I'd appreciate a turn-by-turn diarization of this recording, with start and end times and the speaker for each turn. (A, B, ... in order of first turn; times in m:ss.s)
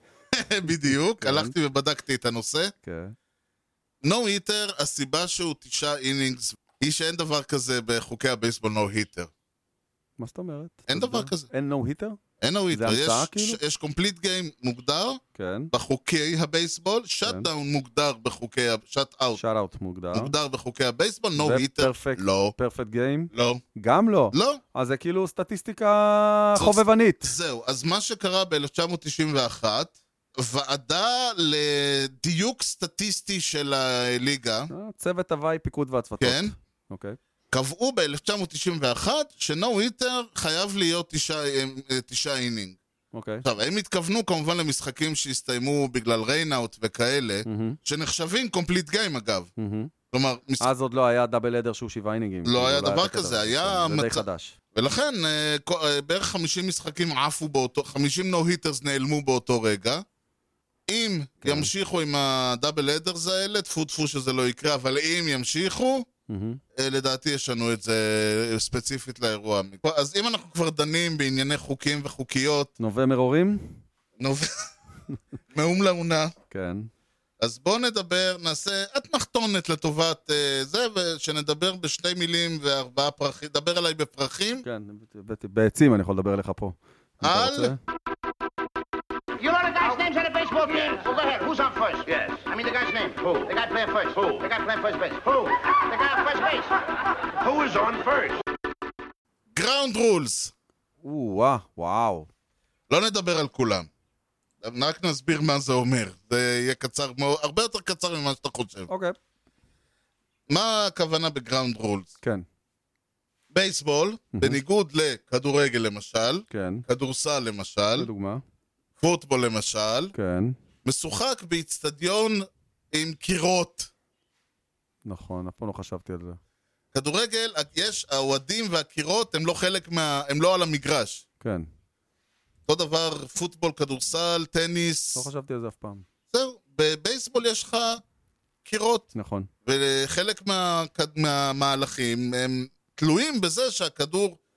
0:00.3-0:02.7 A
0:01.2-0:01.5 B
0:02.8-0:03.2 B
0:04.0-0:09.3 A
0:10.2-0:12.2 B
0:10.9-0:11.5 A
0:12.4-0:19.4 A
0:12.7-0:13.6 B
0:15.4-0:15.7 B
0:19.4-0:20.3 B
0:20.1-0:22.5 A
0:21.4-0:27.3 B
0:23.3-0:23.6 A
0:24.3-0:24.6 A
0:26.6-0:34.7 A
0:34.7-0:37.2 B
0:36.2-0:36.5 A
0:37.5-0:42.8 A
0:43.1-0:43.5 B
0:43.4-0:49.5 A
0:47.5-0:47.8 B
0:49.6-0:49.9 B
0:50.1-0:50.7 A
0:50.6-0:54.6 B
0:52.4-1:00.0 A
1:00.9-1:06.1 A
1:01.4-1:01.7 B
1:06.3-1:06.6 B
1:06.8-1:12.7 A
1:12.8-1:13.8 B
1:14.2-1:14.7 A
1:15.5-1:16.3 A
1:16.5-1:16.9 B
1:17.4-1:24.6 A
1:24.6-1:27.8 B
1:27.2-1:27.8 A
1:29.4-1:36.8 C
1:37.4-1:38.4 C
1:39.5-1:40.5 A
1:41.0-1:42.3 B
1:42.9-1:43.9 A
1:44.6-1:48.9 A
1:48.9-1:49.2 B
1:50.5-1:52.1 A
1:53.5-1:58.1 A
1:54.3-1:54.6 B
1:56.5-1:56.8 B
1:58.0-1:58.4 B
1:59.0-2:00.1 A
2:00.1-2:00.6 B
2:00.8-2:03.9 A
2:05.0-2:06.4 B
2:06.9-2:11.2 A
2:11.4-2:11.7 B
2:12.7-2:15.3 A
2:15.2-2:16.0 B
2:16.3-2:18.0 A
2:18.6-2:19.1 A
2:19.1-2:19.5 B
2:19.7-2:24.4 A